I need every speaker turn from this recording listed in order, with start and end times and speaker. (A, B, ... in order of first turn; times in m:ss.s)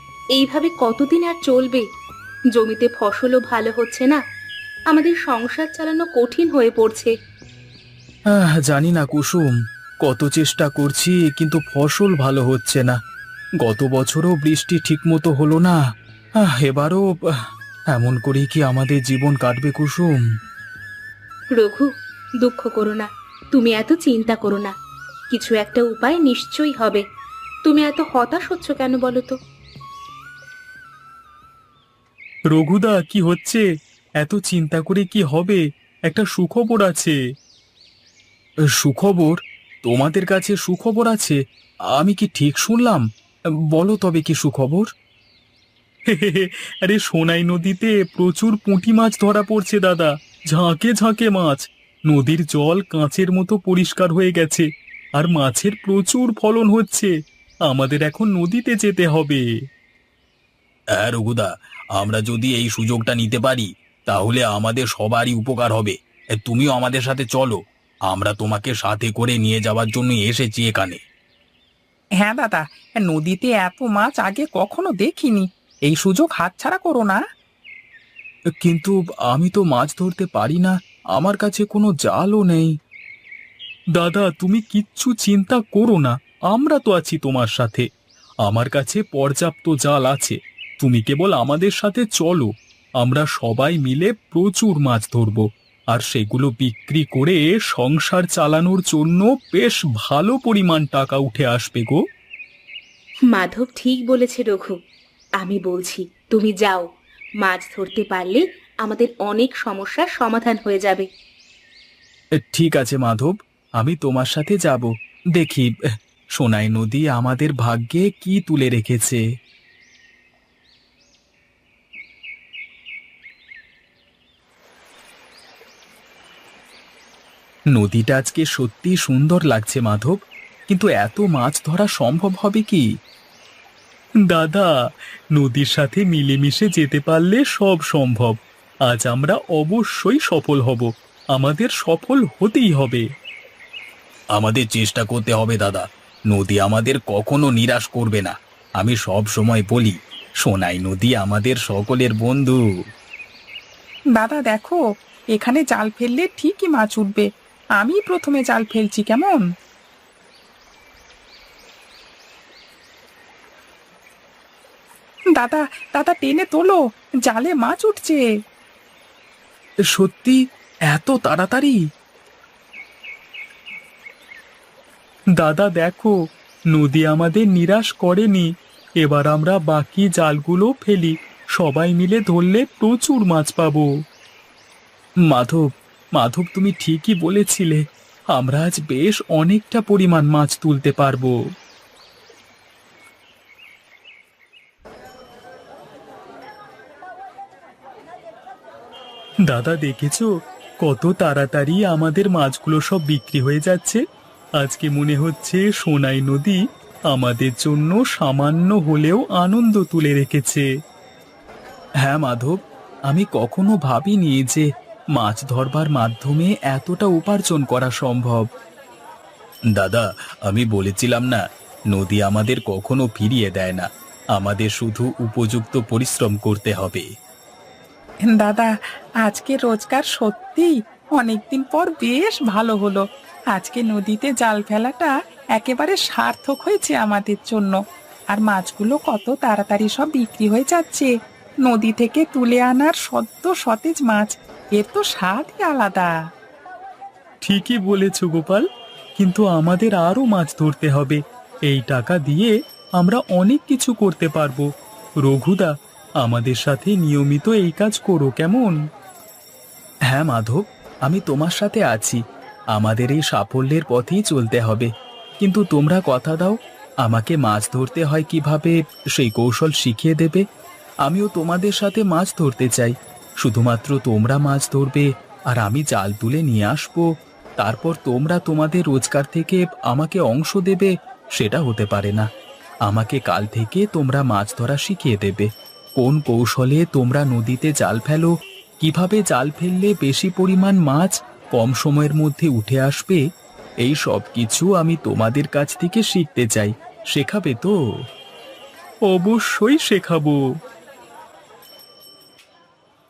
0:00.4-0:01.8 A
0:02.6-0:04.2 A
0:04.9-0:07.1 A
0:08.3-0:09.5 B
0:10.0-0:13.0 B
0:13.6-0:15.8 B
0:16.4-0:17.0 B
0:17.9-0:20.2 B
0:21.6-0:21.9 A
0:22.4-0:24.7 A
0:25.3-0:27.0 A
0:27.6-0:29.4 A
0:32.5-0:33.6 B
0:34.2-0:37.2 B
0:38.7-0:41.4 B
0:41.9-0:43.0 B
0:43.7-0:44.9 B
0:46.1-0:54.7 B
0:55.2-0:57.1 B
0:57.7-0:59.4 B
1:01.0-1:11.0 B
1:12.2-1:17.2 C
1:18.6-1:22.7 B
1:24.0-1:27.9 B
1:28.4-1:42.0 B
1:43.3-1:44.7 A
1:45.4-1:46.8 A
1:47.4-1:51.1 A
1:52.4-1:55.7 B
1:56.4-1:59.2 B
2:07.7-2:12.8 B
2:14.3-2:14.7 B
2:15.4-2:18.4 B
2:18.9-2:23.0 B
2:24.4-2:32.6 B
2:34.2-2:34.8 C
2:35.4-2:37.3 C
2:37.8-2:39.4 C
2:45.4-2:48.2 C
2:49.9-2:51.8 B
2:55.4-2:56.1 B
2:56.7-2:58.5 B
2:59.0-3:03.9 B
3:05.2-3:11.4 B
3:19.5-3:20.3 B
3:20.8-3:24.0 B
3:24.6-3:26.6 B
3:27.1-3:30.7 B
3:32.0-3:38.5 B
3:39.7-3:47.1 B
3:48.3-3:48.7 C
3:49.2-3:57.8 C
3:58.3-4:01.1 C
4:01.7-4:06.1 C
4:07.4-4:08.6 B
4:09.2-4:14.6 B
4:15.2-4:15.7 B
4:16.2-4:18.8 B
4:20.1-4:22.2 B
4:22.7-4:30.4 B
4:31.0-4:37.0 B
4:37.6-4:42.3 B
4:42.9-4:53.2 B
4:53.8-4:57.8 B
4:59.1-5:00.4 B